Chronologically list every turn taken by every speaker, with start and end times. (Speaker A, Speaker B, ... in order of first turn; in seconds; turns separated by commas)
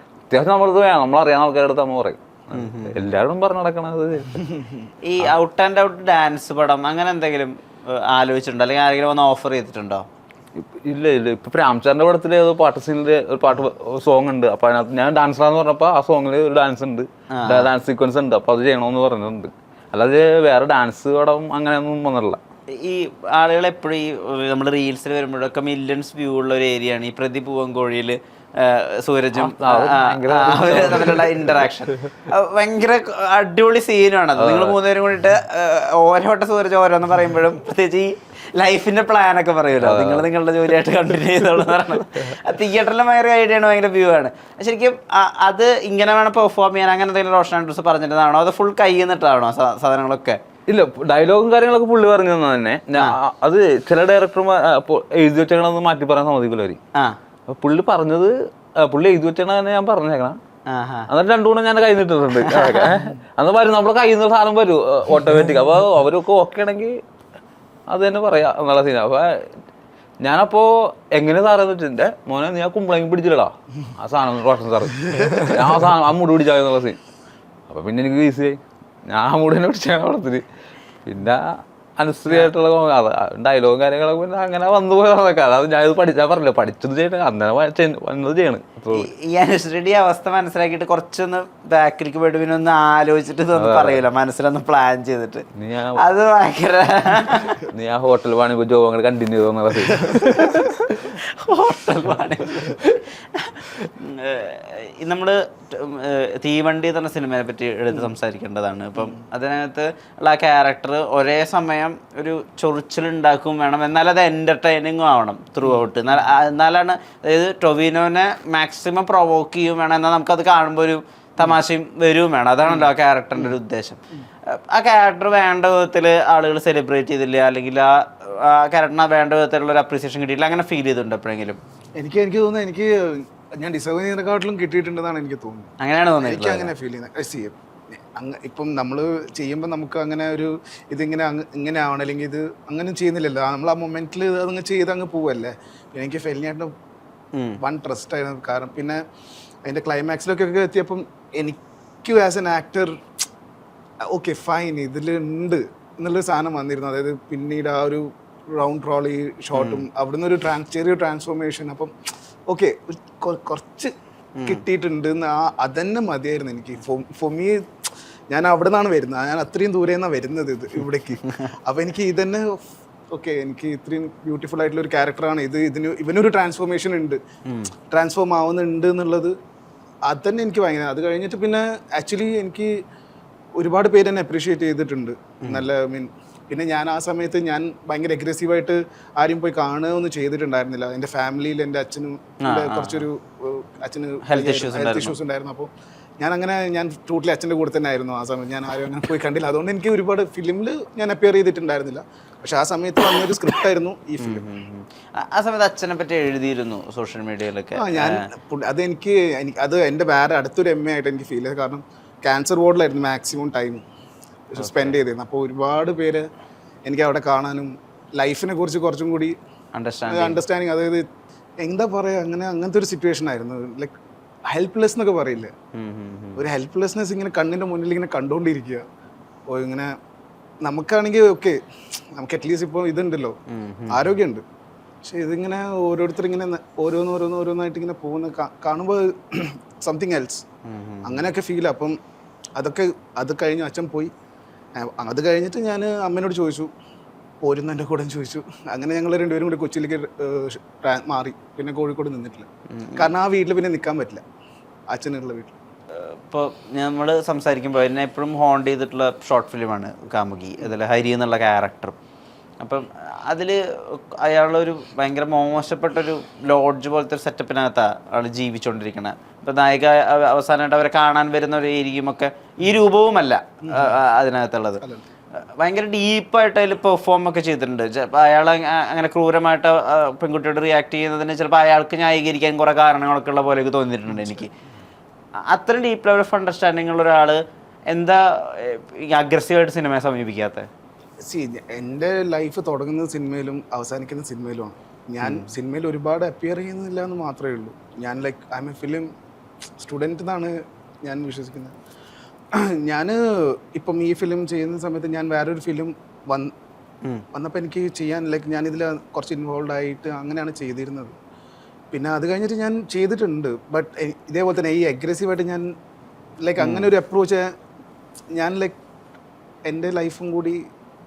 Speaker A: 0.3-4.4, Speaker B: 2.5-3.0, Speaker B: 5.0-10.1, Speaker A: 10.6-22.4, Speaker B: 17.3-17.7, Speaker B: 22.7-50.4, Speaker A: 29.3-31.5, Speaker A: 34.4-34.8, Speaker A: 39.8-40.2, Speaker A: 50.7-56.8, Speaker A: 57.5-60.4, Speaker B: 60.7-61.1, Speaker A: 61.1-66.9, Speaker B: 62.4-62.9, Speaker A: 67.9-69.4, Speaker A: 70.2-77.0, Speaker A: 77.7-80.4, Speaker A: 81.0-89.1, Speaker B: 88.9-95.5, Speaker A: 93.5-94.0, Speaker A: 95.6-96.0, Speaker B: 96.0-97.7, Speaker A: 97.7-100.4, Speaker B: 100.0-131.6, Speaker C: 100.1-100.5, Speaker C: 122.7-123.5, Speaker C: 132.0-135.7, Speaker B: 135.8-136.7, Speaker C: 136.2-146.7, Speaker C: 147.6-149.0, Speaker C: 149.7-152.9, Speaker C: 154.1-161.9, Speaker B: 159.5-159.8, Speaker C: 162.5-163.9, Speaker B: 164.4-164.6, Speaker C: 164.5-167.6, Speaker C: 168.3-172.5, Speaker C: 173.1-177.2, Speaker B: 177.5-177.7, Speaker C: 177.9-179.3, Speaker C: 180.1-182.7, Speaker C: 183.6-195.7, Speaker B: 192.4-193.1, Speaker B: 194.3-195.2, Speaker C: 196.2-204.5, Speaker B: 204.2-208.2, Speaker C: 207.8-213.8, Speaker C: 214.5-216.2, Speaker B: 214.6-215.0, Speaker C: 216.8-219.4, Speaker B: 219.7-220.4, Speaker C: 220.1-221.0, Speaker C: 221.6-223.9, Speaker C: 224.5-225.5, Speaker B: 225.8-226.4, Speaker C: 226.4-228.9, Speaker C: 229.5-229.9, Speaker C: 230.6-231.6, Speaker C: 232.2-233.4, Speaker B: 233.5-234.1, Speaker C: 233.9-234.4, Speaker C: 235.0-240.4, Speaker B: 240.7-241.3, Speaker C: 241.0-242.0, Speaker C: 242.6-244.1, Speaker C: 244.8-246.7, Speaker C: 247.4-254.2, Speaker B: 252.7-253.1, Speaker C: 254.9-255.5, Speaker B: 255.9-261.9, Speaker B: 262.6-274.8, Speaker C: 273.7-273.9, Speaker B: 275.4-284.5, Speaker C: 284.1-284.4, Speaker B: 285.5-287.4, Speaker B: 287.9-290.7, Speaker C: 291.2-299.1, Speaker B: 295.2-295.5, Speaker C: 299.8-301.7, Speaker C: 302.8-306.5, Speaker C: 307.3-311.1, Speaker C: 311.9-315.7, Speaker C: 316.4-317.4, Speaker B: 316.6-316.9, Speaker C: 318.4-318.8, Speaker C: 319.6-320.6